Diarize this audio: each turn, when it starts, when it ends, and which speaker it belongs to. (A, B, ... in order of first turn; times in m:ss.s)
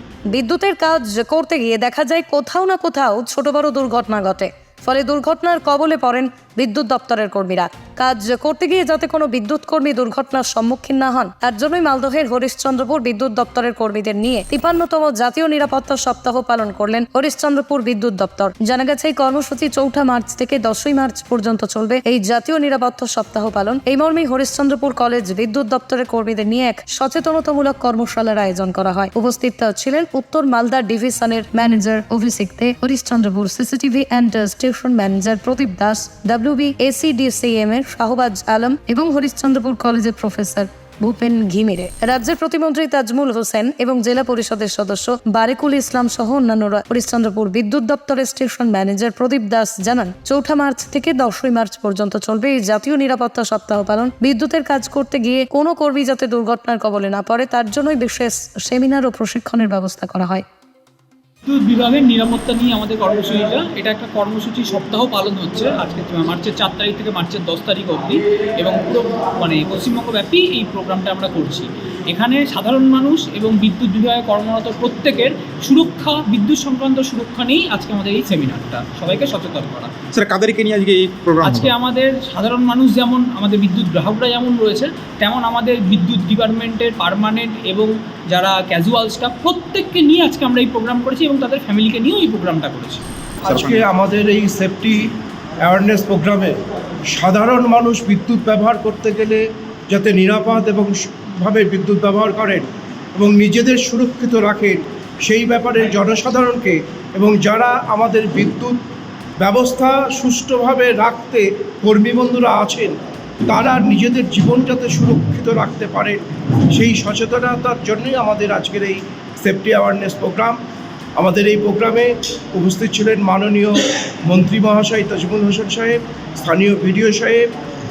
0:00.3-1:00.4 A
1:01.5-1:19.9 B
1:20.1-1:21.7 C
1:21.4-1:33.0 B
1:33.4-1:35.0 D
1:33.5-1:33.8 C
1:35.6-1:36.5 D
1:37.1-1:48.8 D
1:49.4-1:56.2 D
1:56.7-2:00.6 D
2:01.2-2:07.5 D